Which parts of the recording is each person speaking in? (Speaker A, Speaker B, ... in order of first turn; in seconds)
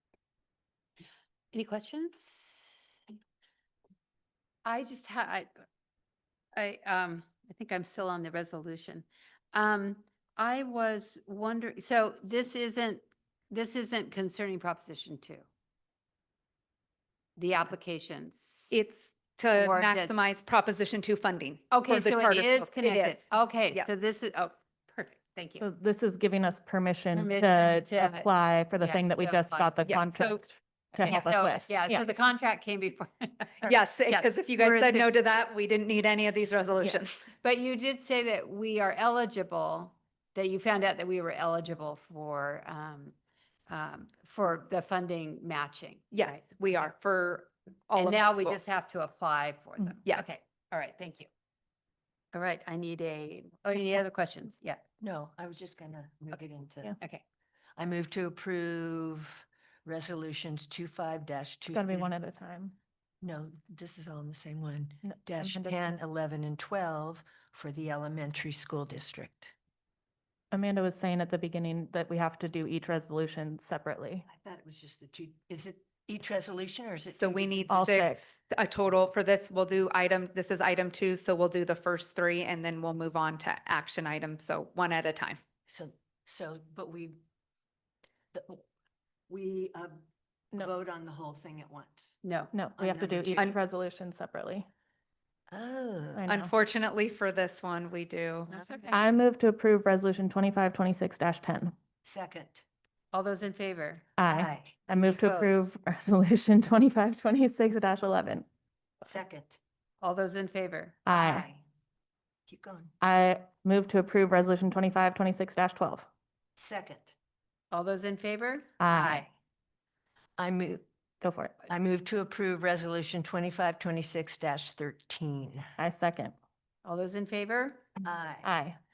Speaker A: 1.5-3.1, 4.7-5.5, 6.6-15.5, 17.4-18.8, 19.5-20.1, 21.7-25.6, 27.1-29.8, 31.0-35.1, 36.8-43.1, 43.7-46.4, 48.0-51.3, 52.3-54.8, 92.2-92.5, 98.5-99.0, 103.1-104.1, 104.9-105.7, 110.0-111.0, 117.7-119.2, 126.8-127.9
Speaker B: 18.7-23.9, 29.9-30.4, 33.6-37.3, 46.1-48.7, 50.0-50.3, 77.1-85.4, 96.3-98.5
Speaker C: 25.6-32.0, 61.7-62.8, 65.0-65.9, 70.5-74.3, 77.7-78.3, 92.5-94.7, 96.2-96.5, 98.9-101.7, 104.2-108.5, 111.1-111.5, 113.0-116.1, 118.8-119.3, 121.2-121.6, 125.8-126.3, 128.4-128.8
Speaker D: 55.0-57.0, 57.8-62.1, 63.2-69.5, 74.3-77.8, 85.7-87.2, 88.3-88.6, 89.3-90.0, 90.5-92.2, 92.8-93.5, 95.5-96.2, 102.0-102.7, 104.3-104.8, 109.0-109.6, 111.1-111.6, 112.5-112.9, 116.6-117.1, 118.9-119.3, 120.4-120.8, 121.7-125.7, 128.0-128.5